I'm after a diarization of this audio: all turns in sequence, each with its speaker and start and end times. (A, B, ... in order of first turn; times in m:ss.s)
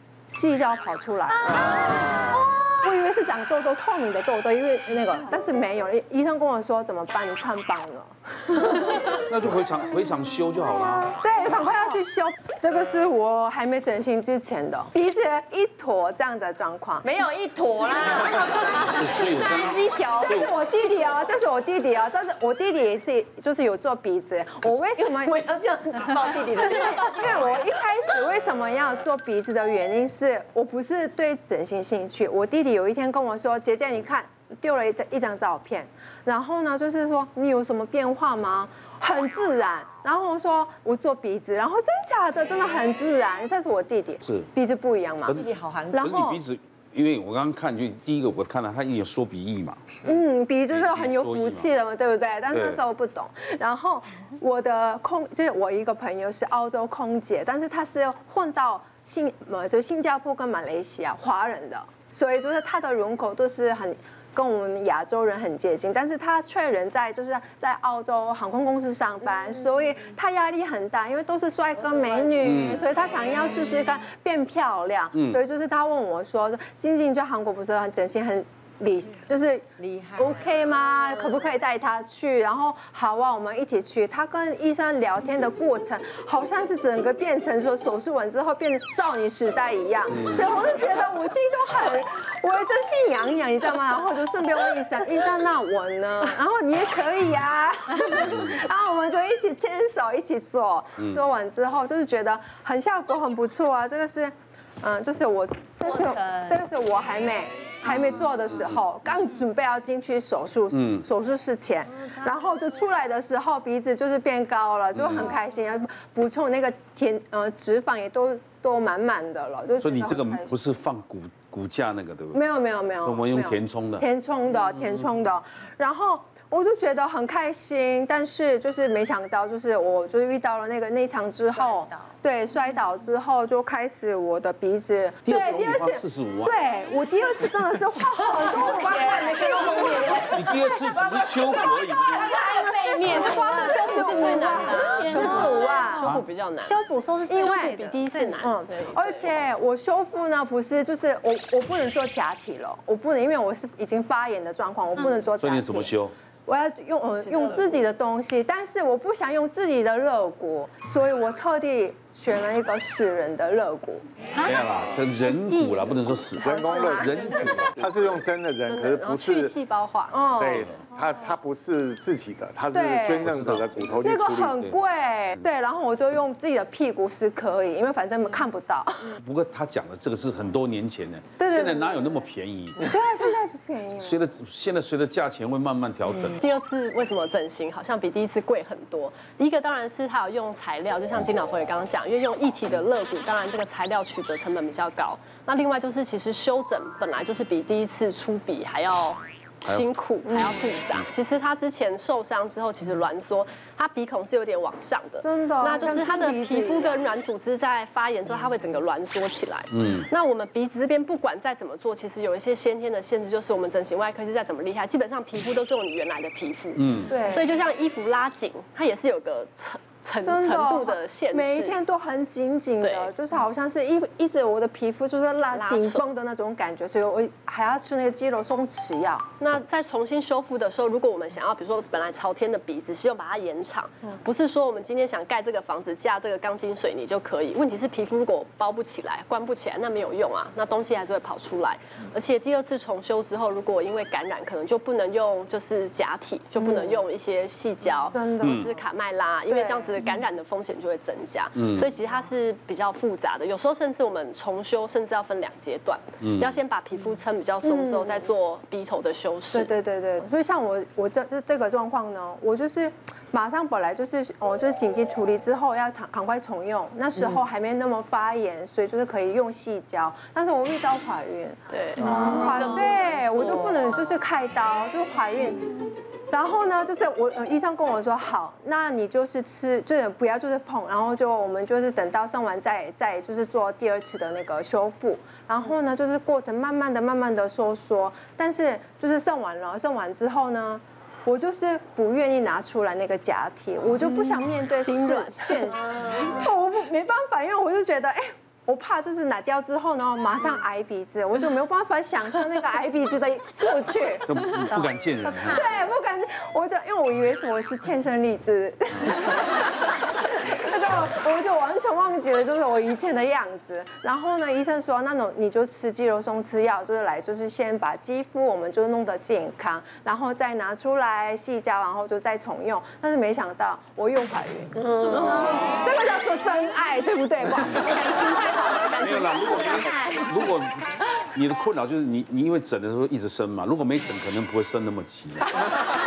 0:00.3-0:09.2 A
0:01.6-0:02.4 B
0:09.1-0:11.1 C
0:11.2-0:17.1 A
0:17.0-0:20.4 B
0:18.8-0:20.5 C
0:20.3-0:25.4 A
0:25.0-0:27.5 B
0:26.4-0:46.4 A
0:44.2-0:44.5 C
0:45.3-0:50.0 C
0:45.3-0:46.0 B
0:50.0-2:00.5 A
0:50.7-0:51.7 C
0:52.5-0:52.8 C
1:12.0-1:12.7 B
1:12.4-1:12.8 C
1:15.1-1:15.4 C
1:19.8-1:20.4 B
1:30.1-1:30.4 C
1:45.8-1:46.6 B
1:48.5-1:48.8 C
1:50.7-1:51.0 C
1:54.9-1:55.4 C
1:59.8-2:02.4 C
2:02.3-2:26.1 A
2:03.0-2:04.0 C
2:04.8-2:05.0 C
2:15.2-2:16.5 C
2:19.1-2:20.1 B
2:20.3-2:22.4 C
2:22.4-2:24.4 D
2:22.9-2:26.8 E
2:25.2-2:25.5 D
2:26.6-2:27.7 D
2:27.3-2:35.9 A
2:27.4-2:29.5 E
2:35.4-2:36.1 C
2:36.4-2:44.0 A
2:37.2-2:37.8 E
2:44.4-2:47.9 C
2:45.4-2:48.1 E
2:46.4-2:49.6 F
2:46.4-2:47.1 A
2:48.6-2:50.7 E
2:50.1-2:50.7 A
2:50.4-2:54.6 F
2:52.7-2:53.2 A
2:53.2-2:54.0 C
2:54.0-2:59.2 A
2:59.2-3:02.8 C
3:01.4-3:01.9 A
3:02.8-3:04.2 A
3:04.0-3:06.4 C
3:06.4-3:41.8 E
3:20.2-3:20.7 A
3:25.2-3:27.0 A
3:29.7-3:30.0 C
3:36.8-3:37.1 C
3:37.1-3:37.5 A
3:40.2-3:49.3 A
3:42.8-3:43.1 E
3:45.5-3:46.1 E
3:49.4-4:19.7 E
4:06.6-4:07.0 A
4:08.1-4:08.7 A
4:08.4-4:08.7 C
4:09.5-4:10.0 A
4:11.6-4:11.9 C
4:16.2-4:16.6 C
4:17.6-4:18.2 A
4:19.5-4:35.7 A
4:31.7-4:32.9 E
4:32.1-4:33.5 B
4:36.3-5:04.3 A
4:54.0-4:56.5 E
5:04.3-5:05.7 C
5:05.3-5:29.7 A
5:27.6-5:27.9 C
5:28.1-5:30.2 D
5:29.0-5:35.6 C